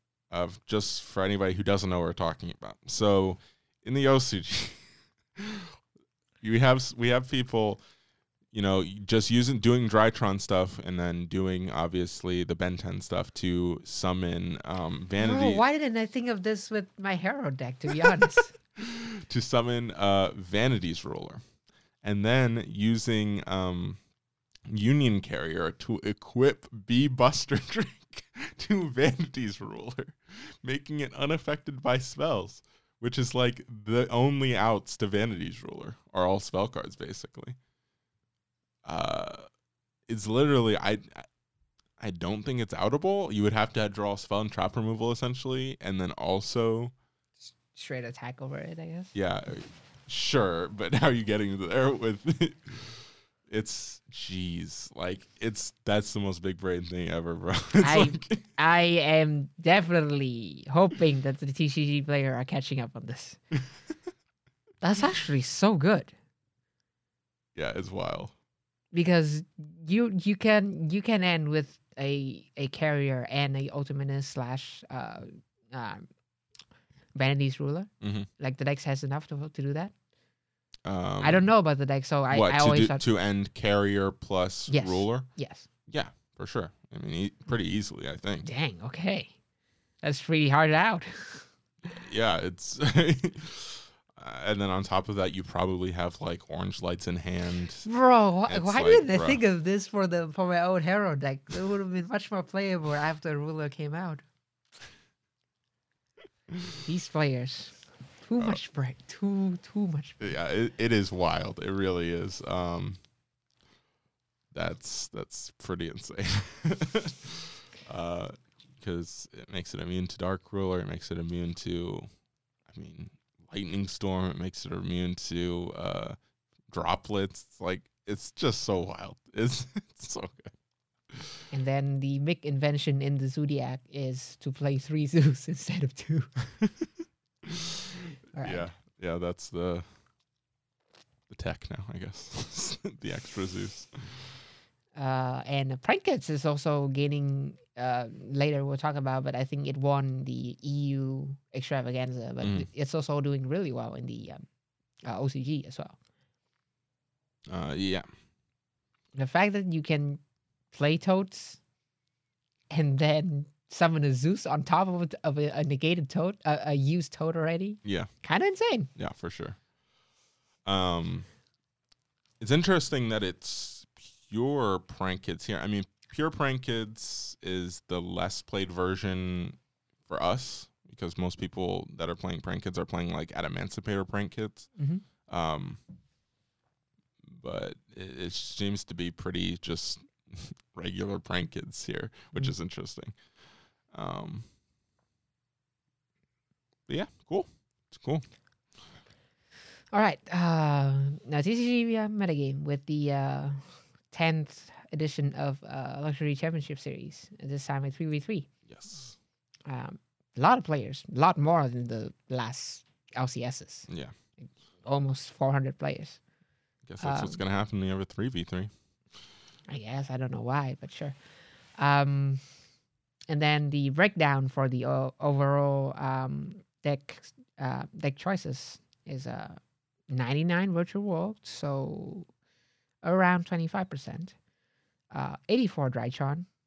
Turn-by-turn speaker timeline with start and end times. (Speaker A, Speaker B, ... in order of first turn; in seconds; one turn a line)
Speaker A: 0.3-5.6
Speaker A: 6.4-7.8
Speaker A: 8.5-15.6
Speaker B: 15.2-18.6
Speaker A: 18.8-21.5
Speaker A: 22.0-24.0
Speaker A: 24.7-37.6
Speaker A: 38.8-39.5
Speaker A: 40.1-41.3
Speaker A: 42.0-46.9
Speaker B: 47.5-49.1
Speaker A: 49.1-58.5
Speaker B: 57.8-63.4
Speaker B: 64.8-66.1
Speaker A: 67.5-68.3
Speaker B: 68.9-76.1
Speaker B: 77.1-79.9
Speaker A: 78.0-78.3
Speaker A: 80.8-81.5
Speaker B: 81.2-83.0
Speaker A: 82.3-85.3
Speaker B: 84.7-85.7
Speaker A: 85.8-88.5
Speaker B: 88.4-89.3
Speaker B: 90.0-91.5
Speaker A: 91.9-97.9
Speaker B: 97.8-104.2
Speaker A: 98.5-99.4
Speaker B: 106.8-110.4
Speaker A: 110.2-113.0
Speaker A: 114.5-122.1
Speaker A: 122.6-126.2
Speaker A: 126.7-130.5
Speaker B: 131.5-136.3
Speaker B: 138.3-138.7
Speaker A: 138.4-140.0
Speaker A: 141.3-144.3
Speaker B: 144.9-154.4
Speaker A: 152.4-152.7
Speaker B: 155.0-155.9
Speaker A: 157.5-158.2
Speaker B: 159.1-161.6
Speaker B: 162.7-168.9
Speaker A: 167.8-168.2
Speaker A: 168.9-169.7
Speaker A: 170.6-171.3
Speaker A: 172.4-185.8
Speaker B: 184.8-185.0
Speaker A: 187.2-194.5
Speaker A: 196.9-198.3
Speaker B: 199.9-208.5
Speaker A: 208.7-209.2
Speaker B: 209.6-216.2
Speaker A: 213.9-214.1
Speaker A: 216.8-219.2
Speaker B: 217.0-217.4
Speaker B: 219.7-222.4
Speaker B: 223.3-232.3
Speaker B: 233.0-234.3
Speaker B: 235.1-236.5